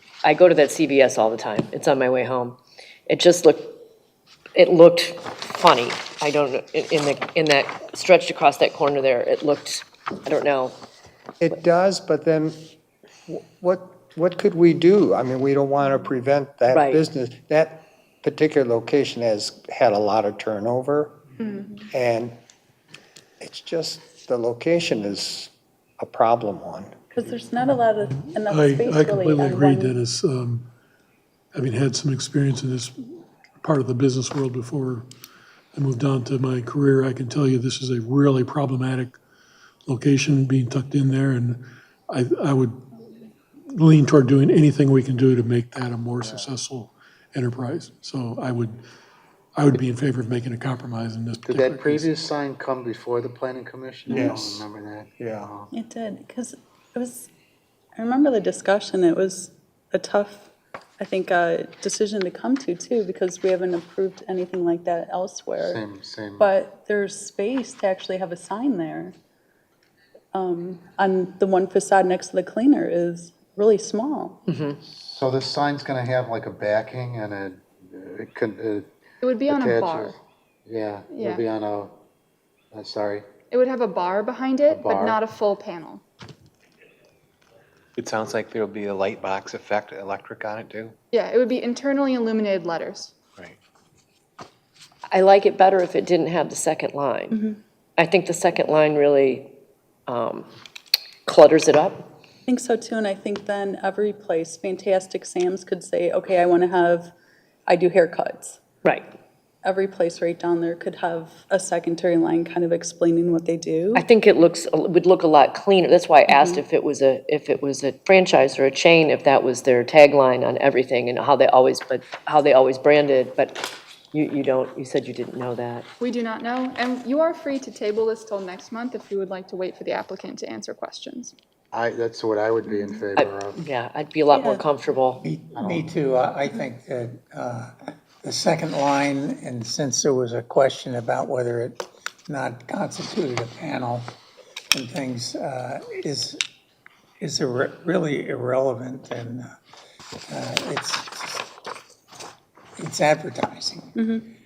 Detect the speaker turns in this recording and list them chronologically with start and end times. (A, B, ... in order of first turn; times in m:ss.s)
0:00.2-0:03.8 A
0:04.6-0:10.8 A
0:11.4-0:12.6 B
0:13.3-0:21.2 B
0:16.7-0:17.0 A
0:21.4-0:21.8 C
0:21.9-0:22.4 B
0:23.4-0:27.0 B
0:27.1-0:30.0 D
0:28.1-0:30.7 E
0:31.5-0:35.1 E
0:35.8-0:39.2 E
0:39.9-0:42.8 E
0:43.7-0:48.8 E
0:49.6-0:52.1 E
0:51.4-0:55.7 F
0:54.1-0:54.6 B
0:55.2-0:55.5 B
0:55.7-0:57.3 D
0:58.0-1:05.8 D
1:05.6-1:06.5 F
1:06.4-1:09.2 D
1:10.3-1:14.4 D
1:14.5-1:14.8 A
1:14.8-1:18.9 F
1:19.2-1:20.2 C
1:19.5-1:22.0 F
1:21.1-1:21.4 C
1:22.7-1:23.3 F
1:23.5-1:26.0 C
1:24.7-1:25.2 F
1:28.0-1:30.9 G
1:31.1-1:33.1 C
1:35.1-1:37.4 A
1:37.3-1:37.6 D
1:38.0-1:39.5 A
1:40.1-1:40.5 A
1:41.3-1:42.1 A
1:42.5-1:47.1 D
1:47.7-1:48.6 D
1:49.6-1:54.0 D
1:53.9-2:05.9 A
1:56.3-1:56.6 D
2:06.0-2:11.3 C
2:11.7-2:13.6 F
2:12.7-2:12.9 D
2:13.2-2:15.2 A
2:14.3-2:14.7 D
2:15.2-2:24.1 H
2:15.5-2:15.9 F
2:24.7-2:26.4 H
2:27.2-2:29.6 H
2:30.3-2:31.5 H
2:32.8-2:34.0 H
2:34.0-2:34.3 D